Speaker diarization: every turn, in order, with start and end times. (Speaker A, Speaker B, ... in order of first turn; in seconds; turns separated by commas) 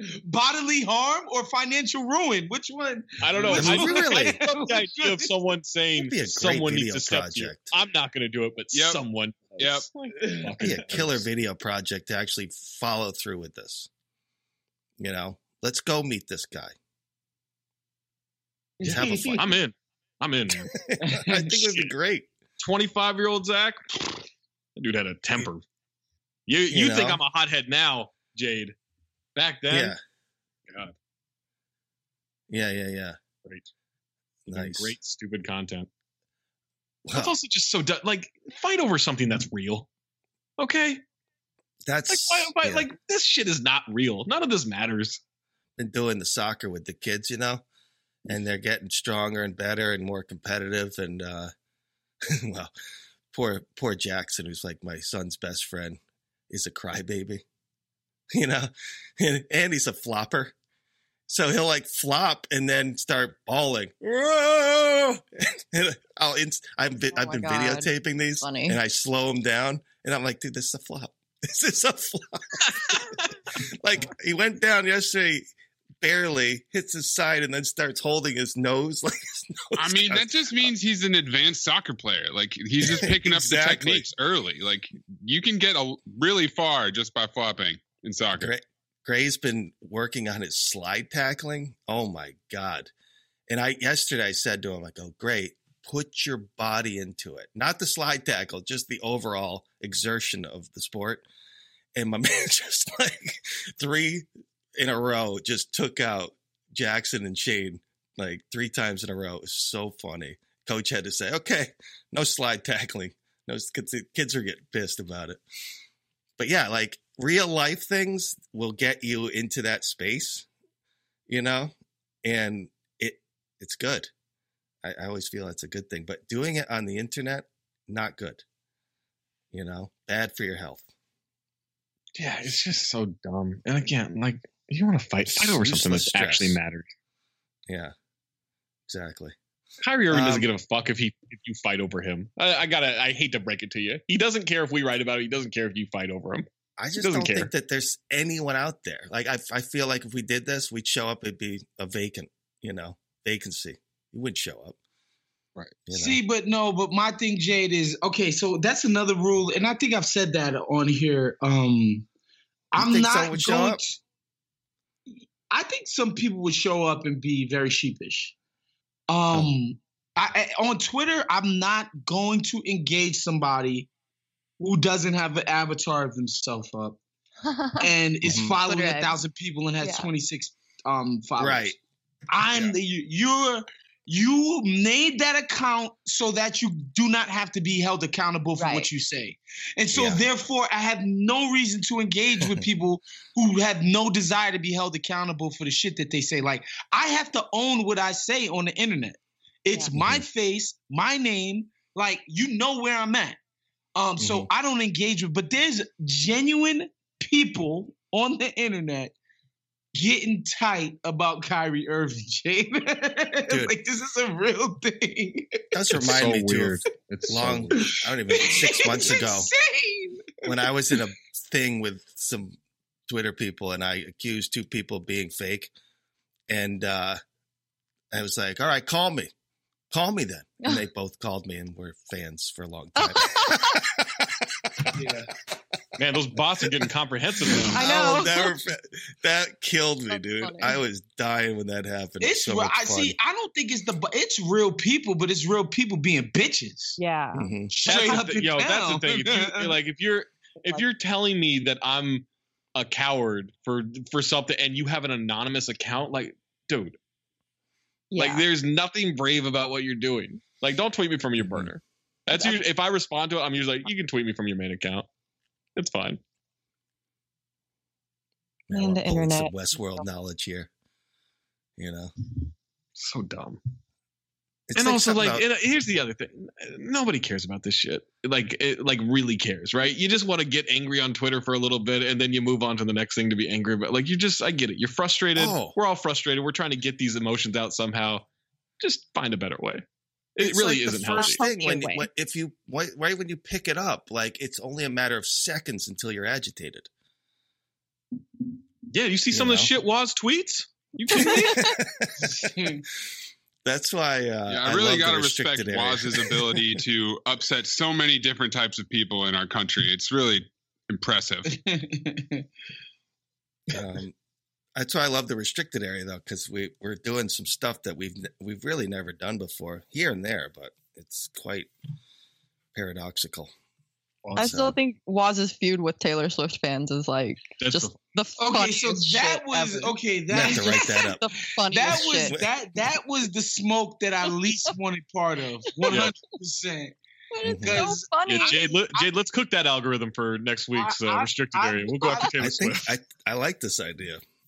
Speaker A: 0.2-5.3, Speaker B: 3.2-11.3, Speaker C: 3.5-4.4, Speaker C: 6.0-7.7, Speaker D: 8.7-9.0, Speaker D: 9.6-9.9, Speaker A: 10.2-10.8, Speaker C: 10.6-13.9, Speaker C: 15.0-16.7, Speaker A: 18.8-19.6, Speaker C: 18.8-19.4, Speaker B: 18.9-20.7, Speaker C: 20.7-22.3, Speaker A: 21.0-21.5, Speaker B: 21.6-21.9, Speaker B: 22.6-24.2, Speaker B: 24.8-25.6, Speaker B: 26.5-28.7, Speaker C: 26.7-27.2, Speaker B: 29.3-29.9, Speaker C: 29.7-30.0, Speaker B: 30.7-30.9, Speaker C: 32.5-33.2, Speaker C: 34.5-35.0, Speaker B: 34.5-35.9, Speaker C: 37.0-37.4, Speaker B: 37.1-39.9, Speaker B: 40.6-41.0, Speaker C: 41.9-42.9, Speaker B: 42.1-45.2, Speaker C: 45.8-47.6, Speaker C: 48.2-51.5, Speaker C: 52.3-52.7, Speaker C: 53.3-57.4, Speaker C: 58.3-60.5, Speaker C: 61.3-75.4, Speaker E: 67.1-67.9, Speaker E: 68.4-68.8, Speaker C: 76.0-80.7, Speaker D: 79.8-88.5, Speaker C: 82.8-84.0, Speaker C: 88.3-92.9, Speaker C: 93.5-101.2, Speaker C: 101.9-115.4, Speaker C: 116.4-120.5, Speaker C: 121.3-124.1, Speaker C: 124.8-128.4, Speaker C: 129.5-130.8, Speaker B: 132.2-136.9, Speaker C: 135.3-136.6, Speaker C: 137.7-137.9, Speaker C: 138.9-139.3, Speaker B: 139.8-147.5, Speaker C: 140.1-140.5, Speaker C: 146.8-154.8, Speaker C: 155.6-156.2, Speaker A: 155.9-162.1, Speaker A: 162.7-164.0, Speaker C: 162.8-163.8, Speaker A: 165.5-168.3, Speaker A: 169.1-173.9, Speaker A: 174.6-177.0, Speaker E: 177.4-177.9, Speaker A: 177.8-181.8, Speaker C: 178.2-178.6, Speaker E: 178.6-179.1, Speaker E: 179.8-180.1, Speaker C: 181.4-181.7, Speaker A: 182.3-203.4, Speaker C: 182.5-182.8, Speaker E: 188.6-188.9, Speaker C: 189.9-190.2, Speaker C: 199.9-200.2, Speaker A: 203.9-209.1, Speaker C: 204.2-204.5, Speaker A: 209.9-215.6, Speaker C: 215.7-219.5, Speaker B: 215.9-217.9, Speaker A: 217.7-220.6, Speaker C: 220.4-225.7, Speaker C: 226.5-227.2, Speaker C: 228.1-229.3, Speaker C: 229.9-235.1, Speaker E: 233.0-233.8, Speaker A: 234.9-235.3, Speaker B: 236.0-238.2, Speaker C: 237.5-243.1, Speaker E: 237.7-238.5, Speaker E: 240.1-240.8, Speaker A: 242.2-247.0, Speaker E: 247.0-247.5, Speaker C: 247.3-248.0, Speaker A: 247.8-249.8, Speaker B: 247.8-257.0, Speaker E: 258.1-258.4, Speaker B: 258.2-265.1, Speaker C: 261.4-261.7, Speaker E: 262.3-262.6, Speaker B: 265.8-266.2, Speaker C: 268.7-270.7, Speaker E: 268.7-270.0, Speaker C: 271.8-272.1, Speaker B: 273.0-273.6, Speaker C: 274.7-275.4, Speaker B: 274.8-288.2, Speaker C: 285.3-285.8, Speaker B: 288.8-289.8, Speaker B: 290.4-291.4, Speaker C: 290.4-296.9, Speaker E: 291.1-292.1, Speaker B: 298.9-301.7, Speaker C: 299.3-299.7, Speaker E: 301.1-301.7, Speaker C: 301.1-302.5, Speaker A: 302.2-302.8, Speaker C: 303.6-306.8, Speaker D: 304.5-311.5, Speaker A: 311.5-312.4, Speaker C: 313.7-314.1, Speaker C: 314.8-321.7, Speaker C: 322.7-323.5, Speaker B: 324.2-324.7, Speaker E: 324.4-332.3, Speaker C: 324.4-324.7, Speaker B: 327.6-328.0, Speaker A: 328.4-331.0, Speaker C: 330.3-331.2, Speaker A: 331.6-336.9, Speaker C: 331.9-332.5, Speaker B: 335.9-336.2, Speaker E: 337.3-338.8, Speaker C: 337.4-337.8, Speaker A: 337.5-339.1, Speaker B: 338.2-342.9, Speaker A: 340.7-342.4, Speaker C: 342.4-344.2